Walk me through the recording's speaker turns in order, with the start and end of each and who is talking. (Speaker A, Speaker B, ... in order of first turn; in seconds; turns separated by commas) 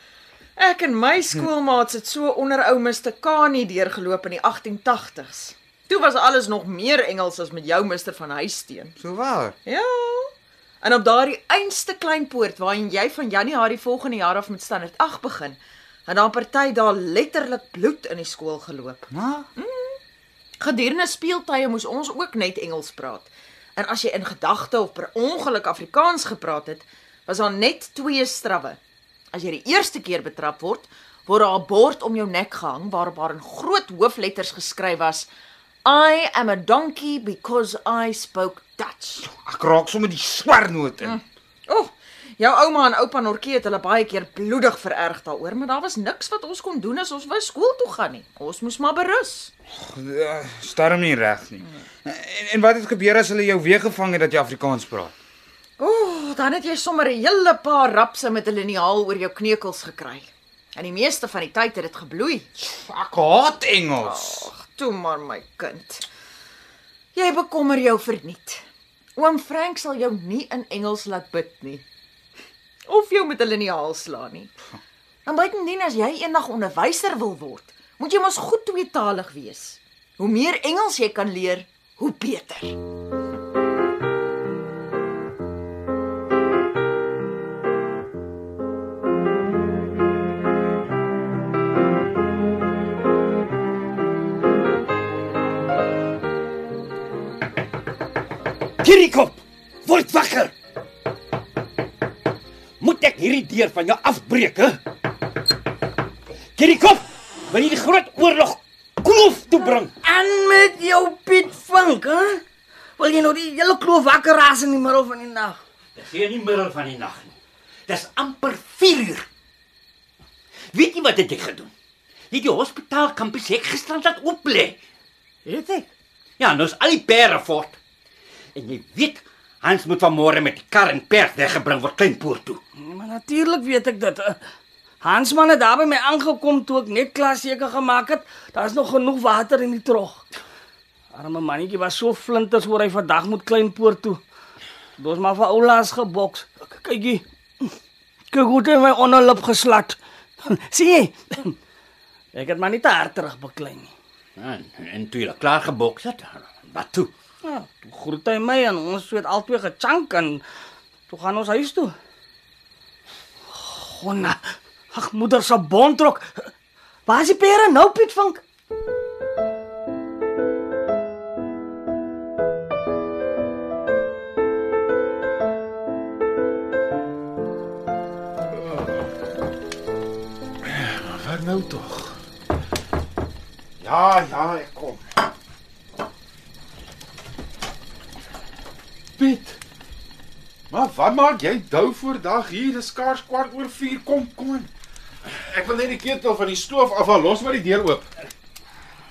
Speaker A: 0.6-8.9, Speaker B: 9.0-9.6, Speaker A: 9.6-20.0, Speaker B: 19.1-19.5, Speaker A: 20.6-28.8, Speaker A: 29.3-35.3, Speaker A: 35.8-39.2, Speaker B: 39.2-41.2, Speaker A: 41.0-49.5, Speaker B: 49.8-55.1, Speaker A: 55.8-62.5, Speaker B: 62.6-64.5, Speaker A: 64.0-66.0, Speaker A: 67.1-68.6, Speaker A: 69.2-71.8, Speaker A: 72.8-74.5, Speaker A: 75.2-82.8, Speaker C: 98.8-100.5, Speaker C: 102.8-104.8, Speaker C: 106.6-109.9, Speaker D: 109.5-112.4, Speaker D: 113.0-115.6, Speaker C: 115.9-117.3, Speaker C: 117.9-119.2, Speaker C: 120.7-121.7, Speaker C: 122.3-124.8, Speaker D: 125.5-125.8, Speaker C: 126.4-127.8, Speaker C: 128.5-132.6, Speaker D: 132.8-134.4, Speaker D: 135.0-140.2, Speaker D: 141.1-144.2, Speaker D: 145.0-147.7, Speaker D: 148.3-151.6, Speaker D: 152.3-153.9, Speaker C: 154.4-157.1, Speaker D: 157.4-160.4, Speaker D: 161.1-161.9, Speaker D: 163.5-166.4, Speaker D: 167.1-168.4, Speaker E: 180.6-182.2, Speaker E: 183.8-185.0, Speaker E: 189.2-189.6, Speaker E: 190.7-194.7, Speaker E: 195.3-198.1